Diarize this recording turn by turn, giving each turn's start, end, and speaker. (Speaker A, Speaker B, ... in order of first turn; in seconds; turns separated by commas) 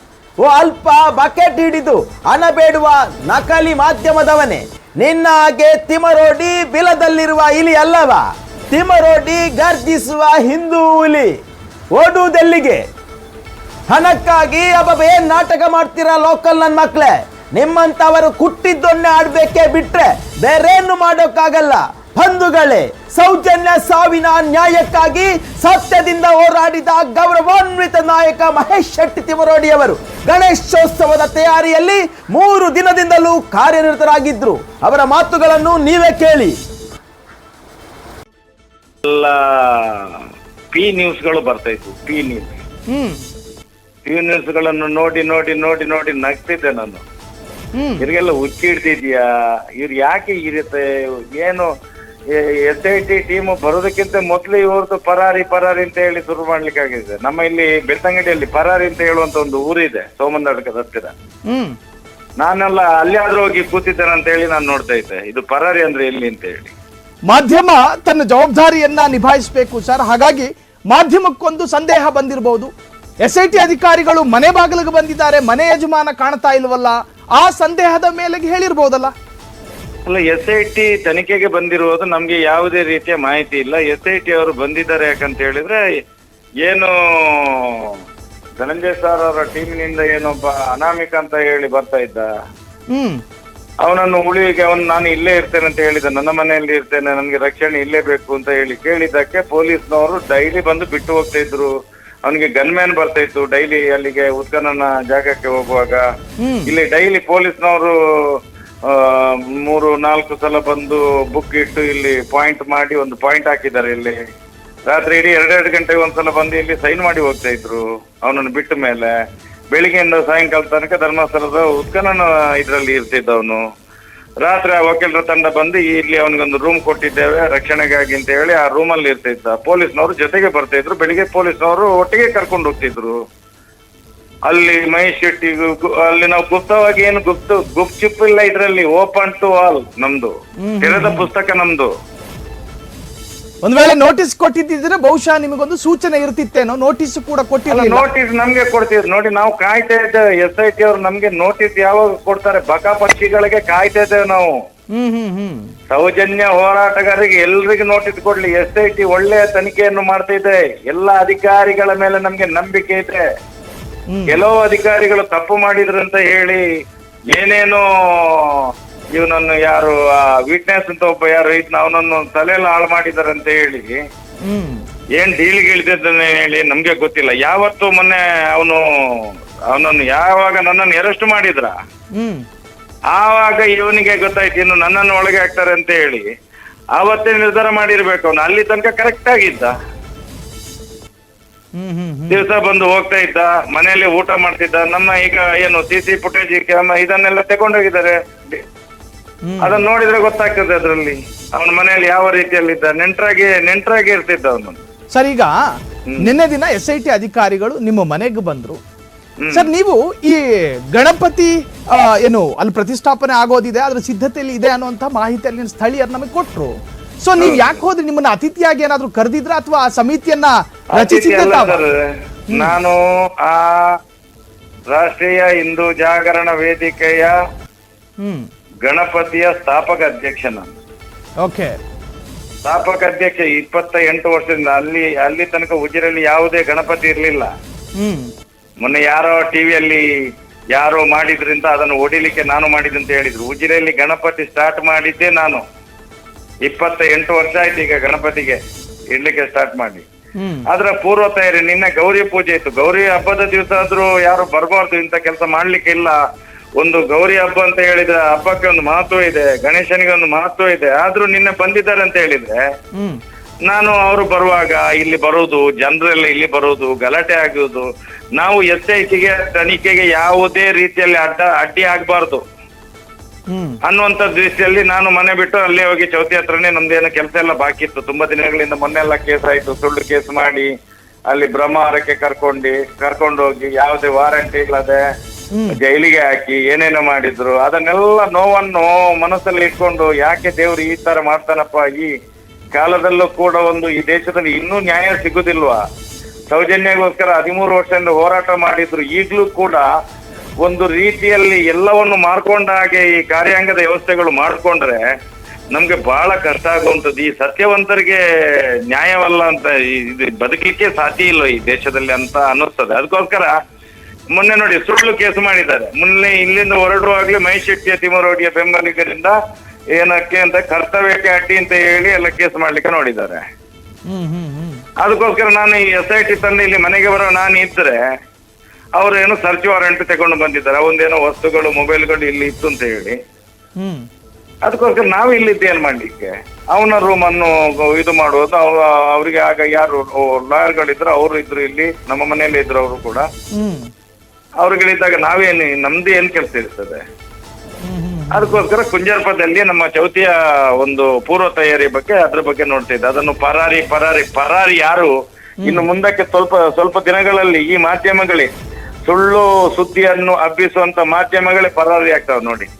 Speaker A: 0.4-11.3, Speaker A: 11.9-12.8, Speaker A: 13.9-36.6, Speaker B: 39.0-40.2, Speaker B: 40.7-42.5, Speaker C: 42.9-43.2, Speaker B: 44.0-47.0, Speaker C: 47.8-48.0, Speaker B: 48.0-49.2, Speaker B: 49.8-51.7, Speaker B: 52.3-61.1, Speaker B: 62.4-66.7, Speaker C: 67.3-72.7, Speaker C: 73.2-79.1, Speaker B: 80.0-85.8, Speaker B: 86.6-87.9, Speaker B: 88.6-92.3, Speaker C: 92.9-93.2, Speaker B: 93.8-101.7, Speaker B: 102.2-106.0, Speaker C: 106.4-106.7, Speaker B: 106.7-108.3, Speaker B: 108.9-114.2, Speaker B: 114.8-119.1, Speaker B: 119.7-123.6, Speaker B: 124.4-133.2, Speaker B: 134.4-141.9, Speaker C: 140.6-141.3, Speaker C: 143.6-148.1, Speaker B: 147.7-154.5, Speaker C: 154.9-155.7, Speaker B: 155.9-163.2, Speaker C: 164.1-164.4, Speaker B: 164.3-166.6, Speaker B: 167.3-173.9, Speaker C: 174.4-174.8, Speaker B: 175.2-181.7, Speaker C: 182.2-182.4, Speaker B: 183.1-186.3, Speaker B: 187.0-189.7, Speaker C: 191.8-192.4, Speaker B: 192.3-198.6, Speaker C: 199.4-199.8, Speaker B: 199.6-204.8, Speaker C: 205.1-205.5, Speaker B: 206.1-206.3, Speaker C: 206.2-208.8, Speaker B: 209.4-209.7, Speaker C: 209.5-216.7, Speaker C: 217.2-221.8, Speaker B: 217.4-217.8, Speaker B: 220.9-221.9, Speaker B: 222.5-223.9, Speaker B: 224.9-227.3, Speaker B: 228.8-230.7, Speaker C: 231.4-231.7, Speaker B: 232.6-237.5, Speaker C: 238.0-238.3, Speaker B: 238.8-240.0, Speaker B: 240.7-245.6, Speaker B: 246.7-248.6, Speaker B: 249.1-250.0, Speaker C: 250.4-250.7, Speaker B: 250.7-256.1, Speaker B: 256.8-262.6, Speaker B: 263.6-272.4, Speaker C: 273.5-273.8, Speaker B: 273.8-280.7, Speaker B: 281.3-285.0, Speaker B: 285.7-292.1, Speaker B: 292.7-295.8, Speaker B: 296.5-299.9, Speaker B: 300.6-305.0, Speaker B: 305.7-308.2, Speaker B: 308.9-313.5, Speaker B: 314.3-319.3, Speaker B: 320.0-323.4, Speaker C: 324.1-324.8, Speaker B: 325.0-328.0, Speaker B: 328.9-333.1, Speaker C: 333.8-334.1, Speaker B: 334.6-343.2, Speaker C: 343.6-343.9, Speaker B: 344.6-347.0, Speaker C: 347.8-348.6, Speaker B: 348.3-355.1, Speaker B: 355.6-358.5, Speaker B: 359.1-362.7